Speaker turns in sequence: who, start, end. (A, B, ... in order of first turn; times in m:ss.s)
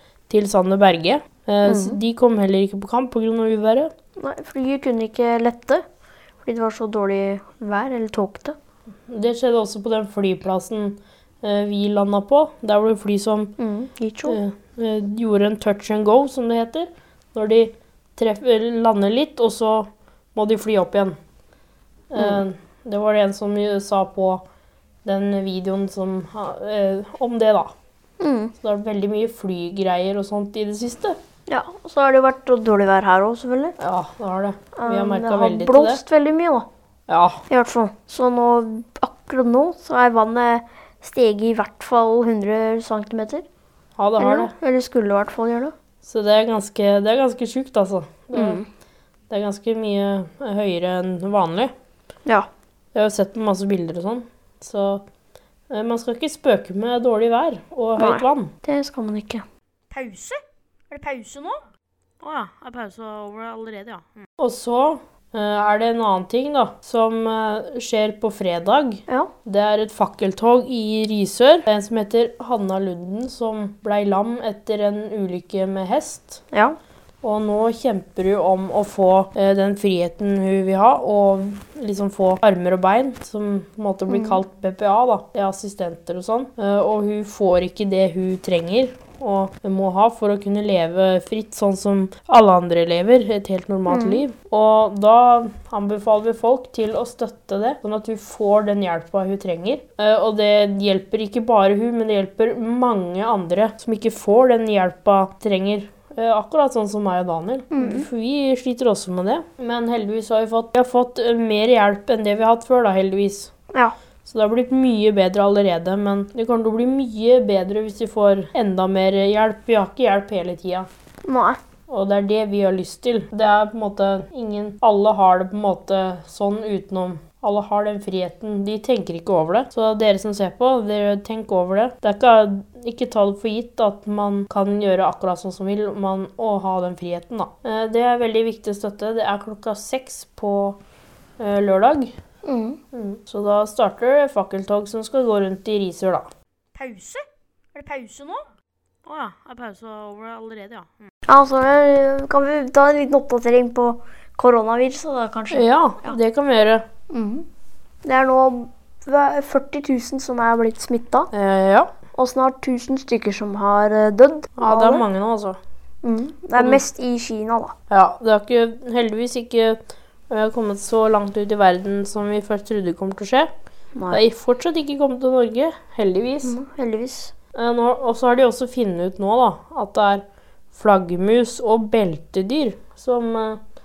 0:00.3-0:03.9 A
0:01.6-0:02.0 B
0:04.2-0:05.8 B
0:06.4-0:08.6 B
0:09.1-0:13.6 A
0:13.6-0:14.4 B
0:14.3-0:21.2 A
0:22.1-0:24.4 A
0:25.0-0:27.7 A
0:28.2-0:28.5 B
0:28.6-0:31.2 A
0:31.5-0:33.8 B
0:33.8-0:36.0 A
0:34.8-0:36.7 B
0:37.1-0:37.4 A
0:37.5-0:43.5 B
0:44.0-0:44.5 A
0:44.2-0:45.7 B
0:46.0-0:48.6 A
0:48.3-0:48.7 B
0:49.3-0:51.7 A
0:52.9-0:55.0 A
0:55.7-0:58.5 A
0:58.0-0:59.4 B
0:59.9-1:00.4 C
1:00.9-1:01.6 C
1:02.2-1:16.4 A
1:16.5-1:16.8 B
1:17.2-1:53.5 A
1:24.1-1:24.4 B
1:33.9-1:34.2 B
1:47.7-1:48.1 B
1:54.2-2:00.9 A
2:01.2-2:01.6 B
2:01.9-2:20.8 A
2:21.4-2:22.2 A
2:22.4-2:22.8 B
2:22.9-2:26.3 A
2:26.8-2:28.5 C
2:29.0-2:30.9 A
2:31.3-2:36.2 B
2:35.5-2:36.8 A
2:37.1-2:37.4 B
2:38.0-2:41.3 B
2:41.3-2:41.9 A
2:42.1-2:45.1 B
2:44.6-2:45.6 A
2:46.0-2:47.8 B
2:46.6-2:46.8 A
2:47.9-2:53.5 A
2:53.9-2:54.2 B
2:54.1-2:56.6 A
2:56.4-2:57.3 B
2:57.5-3:03.6 A